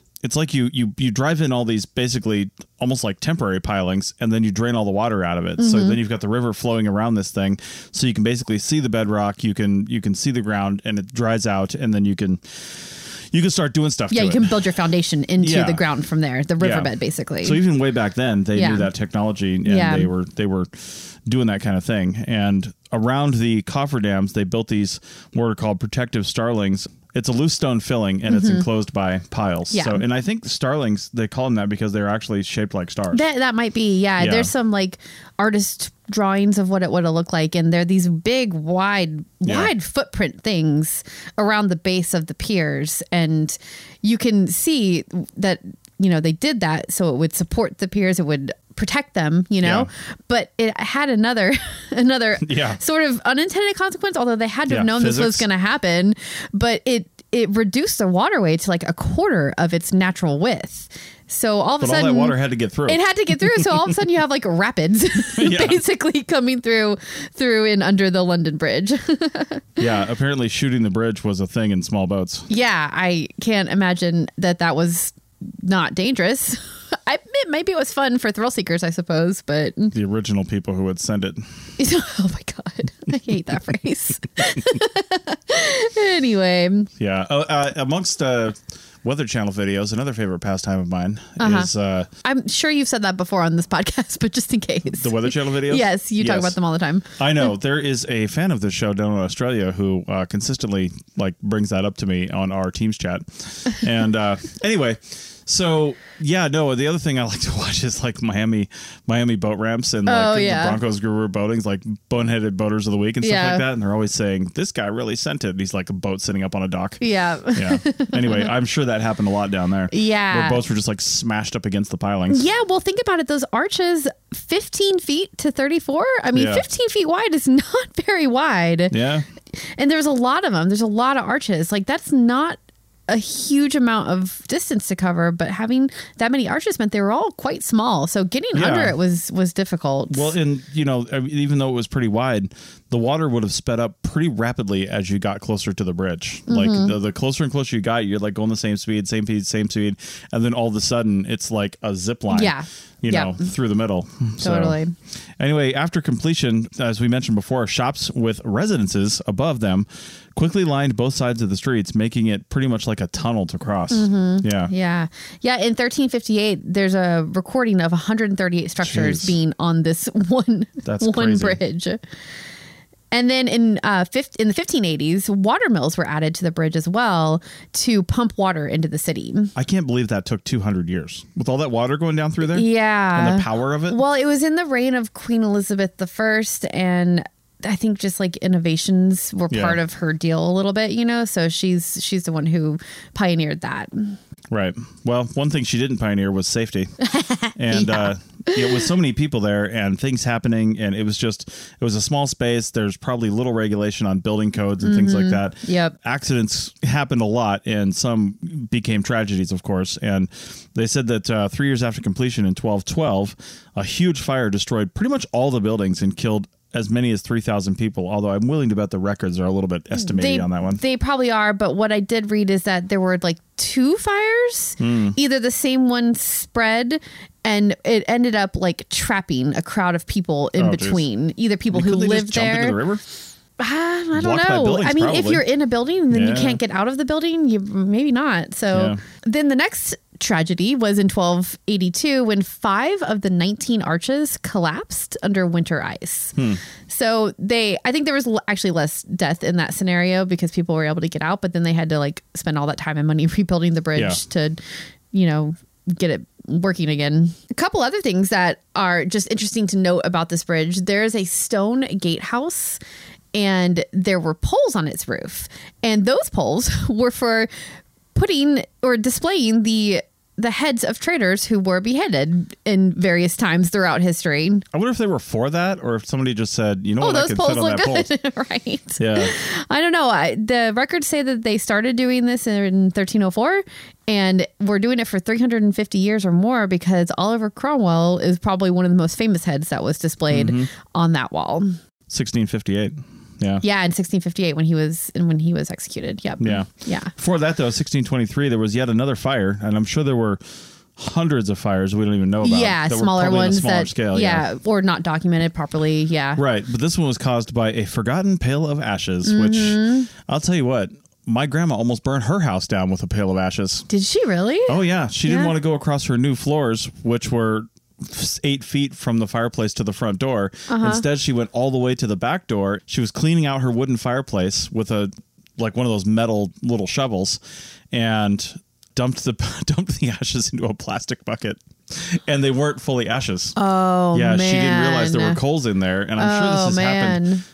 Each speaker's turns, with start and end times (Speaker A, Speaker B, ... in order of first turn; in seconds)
Speaker A: 0.2-14.5, 15.4-15.8, 16.6-33.2, 34.2-34.5, 39.4-39.7, 49.6-49.9, 52.4-52.8, 54.7-55.5, 61.8-63.9, 65.4-65.8, 69.8-72.5, 79.9-81.5, 87.0-92.1, 94.9-96.6, 97.2-122.4, 126.3-126.6, 128.9-129.2, 138.5-139.0, 140.1-154.8, 155.4-164.7, 168.8-169.3, 170.8-171.6, 179.5-184.0, 189.5-189.8, 194.5-197.0, 197.5-220.8, 224.8-225.2, 230.6-231.0, 231.7-233.0, 234.2-235.4, 236.1-236.6, 238.7-239.0, 246.3-246.6, 253.9-254.2, 274.7-278.1, 279.0-279.3, 290.3-290.7, 292.1-293.6, 296.4-300.4, 300.9-304.5, 306.4-313.9, 314.7-327.4, 327.9-333.5, 334.1-337.2
Speaker B: 5.6-6.0, 14.1-17.6, 18.5-18.9, 19.6-20.1, 28.3-28.6, 29.7-30.0, 33.1-69.6, 72.5-79.9, 81.8-86.9, 91.4-91.7, 92.2-97.2, 110.0-110.8, 113.2-113.6, 117.0-118.5, 119.9-120.6, 122.3-128.9, 129.6-140.3, 146.5-146.9, 152.3-153.5, 154.4-154.9, 163.9-172.0, 173.1-179.5, 182.4-194.2, 197.1-198.9, 204.8-205.9, 220.0-232.8, 233.6-246.4, 246.9-254.6, 255.1-262.8, 263.3-267.5, 268.1-274.6, 277.0-291.8, 293.6-297.1, 302.4-306.4, 309.2-310.1, 313.9-315.5, 320.7-321.0, 333.6-335.4, 336.2-337.4